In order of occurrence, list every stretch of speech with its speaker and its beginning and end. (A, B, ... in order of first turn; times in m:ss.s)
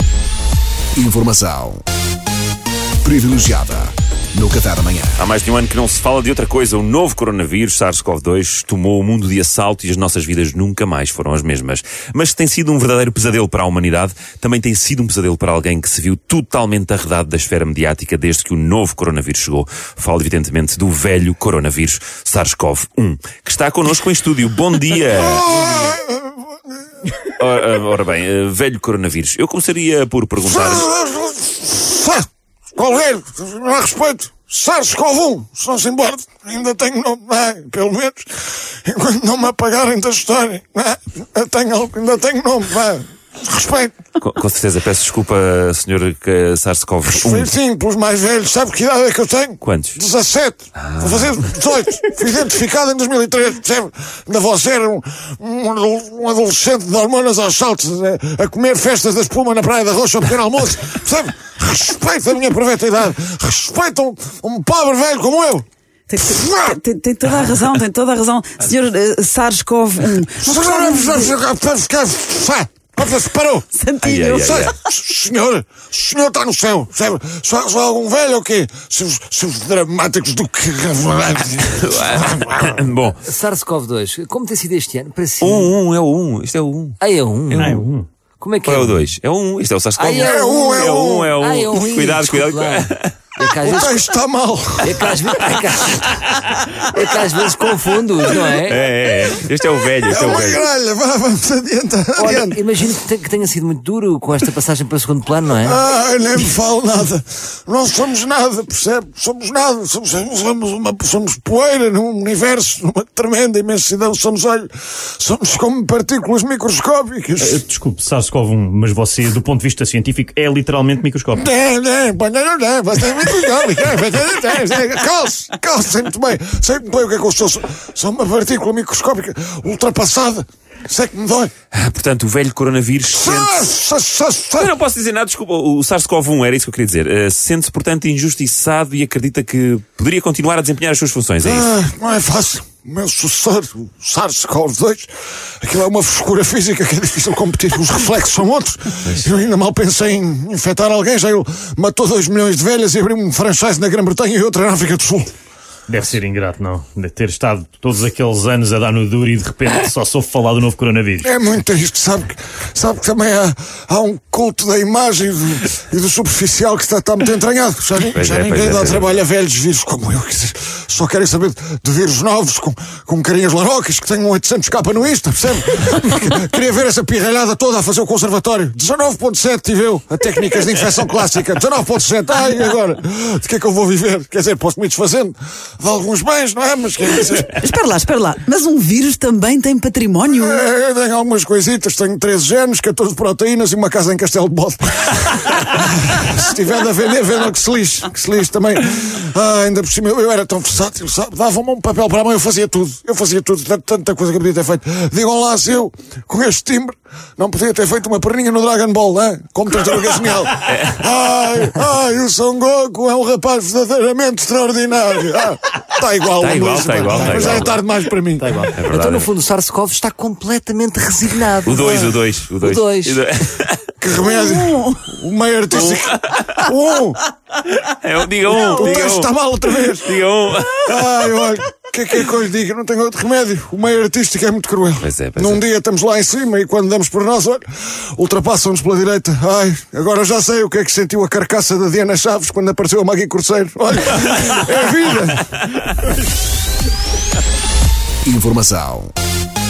0:00.9-0:01.8 A
0:03.0-0:05.2 A
0:05.2-0:25.5 B
0:25.2-0:26.3 C
0:27.3-0:30.9 B
0:30.4-0:38.3 C
0:38.8-0:44.0 C
0:44.2-0:47.5 B
0:47.0-1:05.6 C
0:49.6-0:50.0 B
0:50.8-0:51.4 B
1:06.1-1:11.3 D
1:06.2-1:06.8 C
1:10.4-1:13.7 C
1:13.7-1:14.7 D
1:14.0-1:14.8 B
1:14.4-1:22.6 C
1:21.7-1:23.2 B
1:23.2-1:25.7 E
1:25.4-1:27.0 B
1:27.0-1:27.9 E
1:27.5-1:27.8 B
1:27.5-1:28.1 F
1:28.4-1:29.0 E
1:28.6-1:33.1 B
1:30.0-1:34.0 E
1:30.2-1:31.3 C
1:33.6-1:35.1 C
1:34.8-1:36.0 E
1:36.7-1:38.8 E
1:38.3-1:40.6 B
1:40.0-1:42.6 C
1:42.2-1:45.8 E
1:45.6-1:57.6 C
1:57.4-2:01.5 F
2:01.3-2:11.5 C
2:11.7-2:13.7 B
2:13.1-2:14.7 C
2:14.6-2:21.7 B
2:21.4-2:25.1 C
2:25.6-2:35.3 C
2:35.9-2:41.3 F
2:41.2-3:07.6 C
2:48.0-2:49.2 B
3:07.4-3:10.6 D
3:10.3-3:38.7 C
3:30.6-3:31.0 B
3:36.4-3:37.8 B
3:38.4-3:43.2 E
3:38.7-3:39.3 B
3:41.6-3:43.8 B
3:44.0-3:47.2 C
3:44.4-3:44.9 D
3:45.7-3:46.6 B
3:47.7-3:49.4 B
3:48.5-3:50.2 C
3:49.9-3:51.0 B
3:50.8-4:05.6 C
3:55.0-3:55.6 B
4:08.2-4:09.1 A